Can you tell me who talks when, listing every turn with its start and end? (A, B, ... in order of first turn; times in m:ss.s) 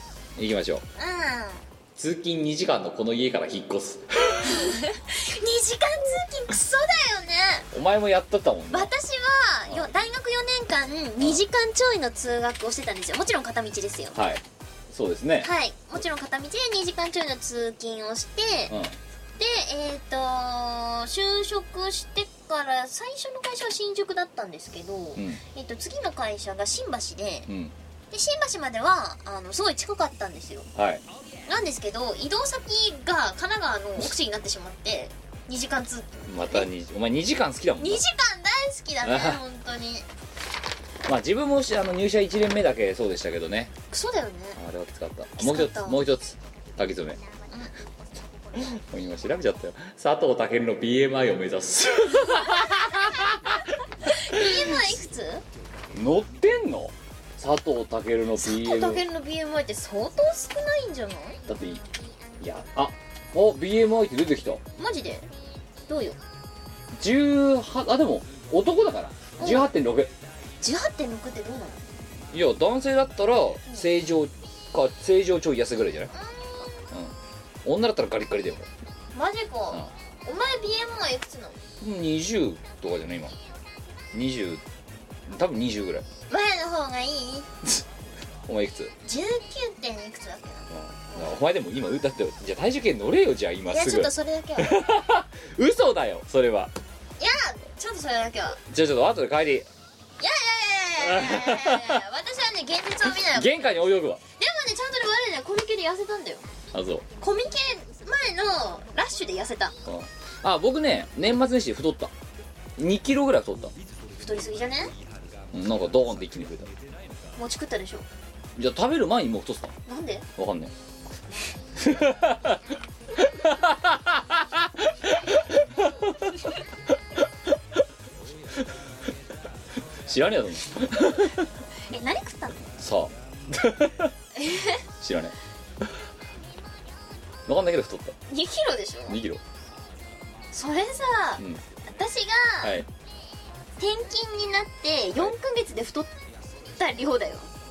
0:00.4-0:00.8 A
0:01.0-0:01.6 B
0:02.0-0:04.6 A
0:04.5-0:07.7 B
0:07.7-0:08.9 A
0:08.7-0:14.2 B
0:14.1-0:14.4 A
0:14.9-0:15.5 A
0:15.4-0:18.8 B
0:18.7-0:19.0 A
0:19.4-0:27.5 B
0:25.2-0:25.4 A
0:27.5-0:27.7 A
0:28.1-0:30.7 B
0:30.8-0:31.0 A
0:31.5-0:36.7 B
0:36.3-0:38.0 A
0:37.8-0:40.1 B
0:39.0-0:39.4 A
0:41.1-0:43.7 A
0:43.9-0:44.6 B
0:44.6-0:47.2 A
0:45.4-0:46.0 B
0:48.6-0:53.6 A
0:52.5-0:53.0 B
0:54.0-0:55.4 B
0:55.9-0:59.0 A
0:58.4-1:01.4 B
1:01.5-1:01.8 A
1:02.4-1:04.6 A
1:04.8-1:05.3 B
1:05.9-1:06.2 B
1:07.0-1:10.1 A
1:09.4-1:09.7 B
1:10.6-1:11.8 B
1:12.3-1:16.1 A
1:16.1-1:16.9 B
1:17.6-1:18.7 A
1:19.1-1:21.6 B
1:21.8-1:23.3 A
1:24.1-1:24.6 A
1:25.3-1:26.0 A
1:26.3-1:27.5 B
1:28.5-1:28.9 A
1:29.0-1:31.4 B
1:30.7-1:36.7 A
1:33.7-1:34.7 B
1:37.2-1:38.6 B
1:38.7-1:39.7 A
1:40.2-1:43.7 B
1:41.0-1:42.0 A
1:43.3-1:44.2 A
1:44.4-1:46.4 B
1:46.7-1:47.0 A
1:47.2-1:49.7 B
1:49.9-1:52.1 A
1:52.8-1:53.7 A
1:54.2-1:54.9 B
1:55.5-1:56.7 A
1:57.4-1:58.1 B
1:58.6-1:59.7 A
1:59.9-2:00.3 B
2:00.4-2:00.7 A
2:01.8-2:02.6 A
2:03.2-2:06.3 A
2:10.1-2:11.5 A
2:11.9-2:12.6 B
2:12.8-2:14.1 A
2:14.4-2:14.8 B
2:15.0-2:15.4 A
2:17.5-2:18.2 A
2:18.3-2:19.2 B
2:19.1-2:19.4 A
2:20.5-2:22.8 B
2:22.6-2:22.9 A
2:23.8-2:26.1 B
2:26.8-2:27.5 B